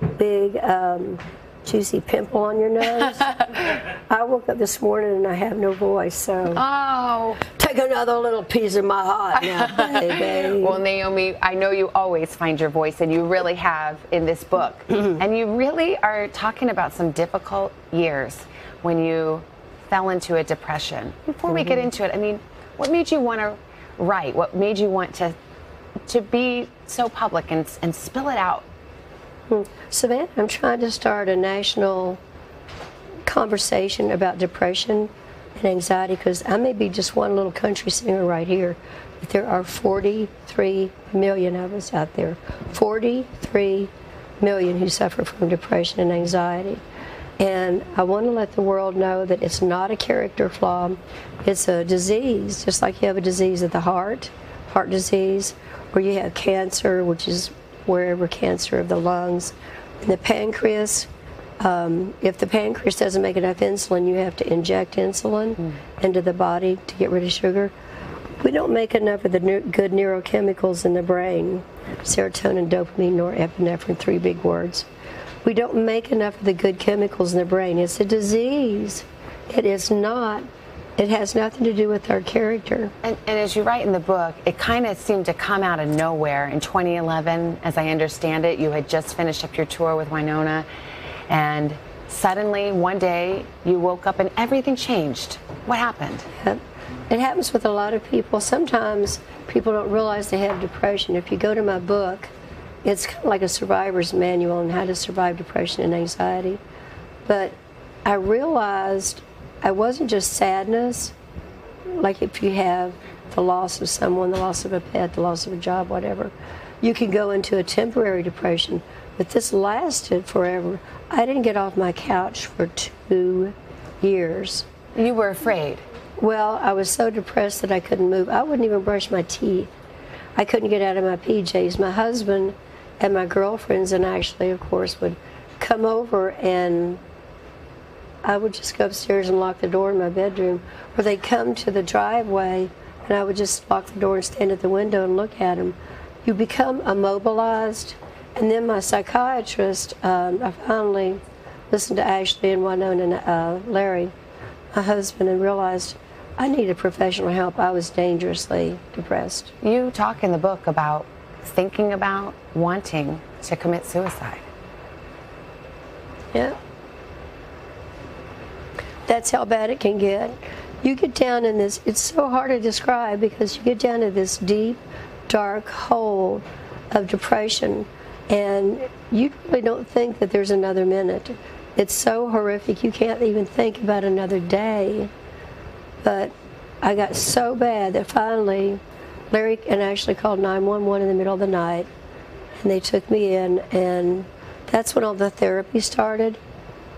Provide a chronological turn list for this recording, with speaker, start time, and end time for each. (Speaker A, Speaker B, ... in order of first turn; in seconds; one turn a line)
Speaker A: 0.2-6.6
Speaker B: 6.5-7.4
Speaker A: 7.5-10.8
Speaker B: 9.4-25.4
Speaker B: 26.1-28.6
Speaker A: 29.5-32.2
Speaker A: 33.2-46.8
Speaker A: 47.4-61.1
Speaker A: 61.6-67.7
Speaker A: 68.4-74.9
Speaker A: 75.5-80.5
Speaker A: 81.0-82.9
Speaker B: 83.0-90.7
Speaker B: 91.3-96.3
Speaker A: 96.4-102.3
Speaker A: 102.8-106.6
Speaker A: 107.2-111.1
Speaker A: 111.9-124.7
Speaker B: 125.0-125.8
Speaker A: 126.2-129.7
Speaker A: 130.4-137.0
Speaker A: 138.2-151.2
Speaker A: 151.7-154.1
Speaker A: 154.7-159.5
Speaker B: 159.6-164.4
Speaker A: 169.1-185.1
Speaker A: 186.0-188.8
Speaker A: 189.3-191.9
Speaker A: 192.6-196.4